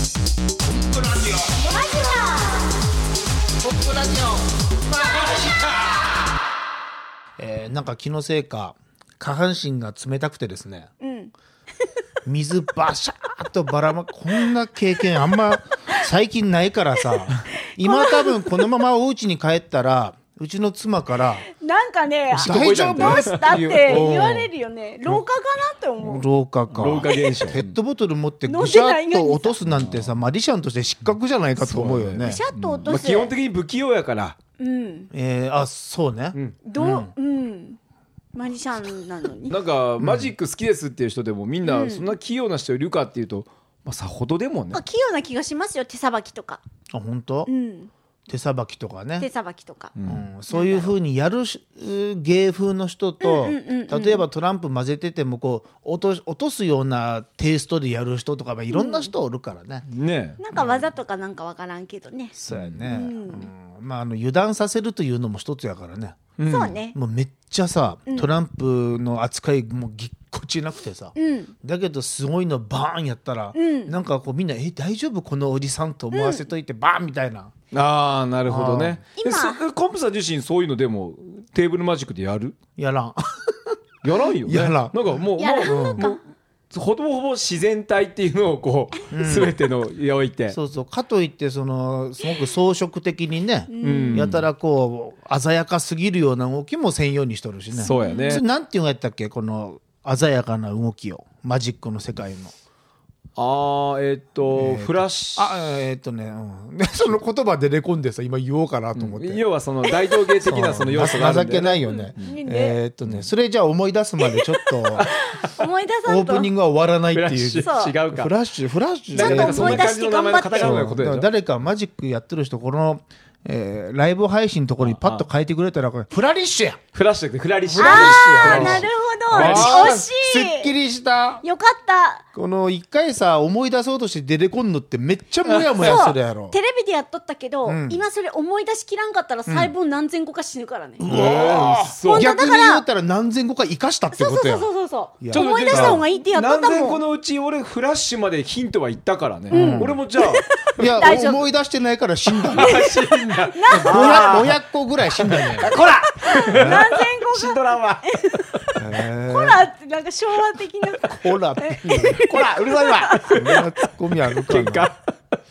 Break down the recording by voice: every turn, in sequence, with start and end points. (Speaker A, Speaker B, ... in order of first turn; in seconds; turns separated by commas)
Speaker A: 0.6-1.7, Speaker B: 1.6-2.7, Speaker A: 3.6-6.1, Speaker A: 7.4-10.9, Speaker B: 11.0-12.0, Speaker A: 12.2-21.4, Speaker B: 17.8-18.6, Speaker B: 21.5-26.2, Speaker C: 22.3-24.1, Speaker A: 22.3-24.5, Speaker A: 26.0-32.4, Speaker C: 26.7-27.7, Speaker B: 26.8-27.5, Speaker B: 28.4-29.6, Speaker C: 29.7-30.1, Speaker C: 31.6-34.4, Speaker B: 32.2-33.3, Speaker B: 34.6-35.1, Speaker A: 35.1-37.1, Speaker B: 36.6-37.8, Speaker B: 38.3-39.6, Speaker C: 39.5-44.8, Speaker A: 40.0-40.3, Speaker B: 41.6-42.1, Speaker B: 44.7-46.6, Speaker A: 46.9-47.5, Speaker B: 47.5-47.9, Speaker A: 48.3-49.3, Speaker B: 49.2-49.9, Speaker C: 50.0-50.2, Speaker A: 50.0-59.9, Speaker B: 50.5-50.9, Speaker B: 53.2-54.2, Speaker B: 58.7-59.1, Speaker C: 59.9-60.4, Speaker B: 60.4-63.5, Speaker A: 60.5-60.8, Speaker A: 62.4-77.5, Speaker C: 62.5-62.9, Speaker C: 66.4-66.7, Speaker B: 66.4-67.0, Speaker B: 71.2-71.5, Speaker B: 73.5-73.9, Speaker B: 76.1-76.4, Speaker C: 77.7-82.6, Speaker A: 78.5-79.0, Speaker B: 79.2-79.6, Speaker A: 82.8-83.8, Speaker C: 84.0-86.2, Speaker A: 84.4-84.9, Speaker B: 85.4-86.2, Speaker A: 85.6-86.0, Speaker C: 86.7-90.6, Speaker A: 89.1-89.5, Speaker A: 90.5-102.5, Speaker B: 93.7-94.3, Speaker C: 93.8-94.4, Speaker B: 97.8-98.4, Speaker C: 97.8-98.4, Speaker C: 103.3-105.5, Speaker A: 104.5-109.4, Speaker C: 109.0-112.3, Speaker B: 110.1-110.5, Speaker A: 110.4-115.1, Speaker B: 111.8-112.8, Speaker B: 114.2-116.5, Speaker A: 116.0-119.9, Speaker C: 117.1-118.3, Speaker B: 117.6-117.9, Speaker C: 119.1-121.3, Speaker B: 119.1-120.8, Speaker A: 120.6-126.8, Speaker C: 124.8-125.2, Speaker C: 126.9-130.0, Speaker A: 127.7-131.4, Speaker B: 127.8-130.7, Speaker B: 131.4-132.2, Speaker A: 132.3-136.5, Speaker C: 135.5-136.0, Speaker B: 135.8-141.1, Speaker A: 137.6-138.0, Speaker A: 141.0-144.7, Speaker C: 141.1-142.3, Speaker B: 142.0-142.8, Speaker B: 144.1-147.0, Speaker A: 145.2-146.0, Speaker C: 145.3-151.0, Speaker A: 149.5-149.9, Speaker B: 149.5-151.4, Speaker A: 150.8-152.8, Speaker C: 152.4-154.6, Speaker B: 152.6-154.4, Speaker A: 153.7-155.7, Speaker C: 155.1-158.0, Speaker B: 156.1-163.6, Speaker A: 156.5-156.9, Speaker A: 158.8-159.7, Speaker A: 161.0-162.2, Speaker C: 162.2-163.6, Speaker A: 163.2-164.9, Speaker C: 164.3-165.0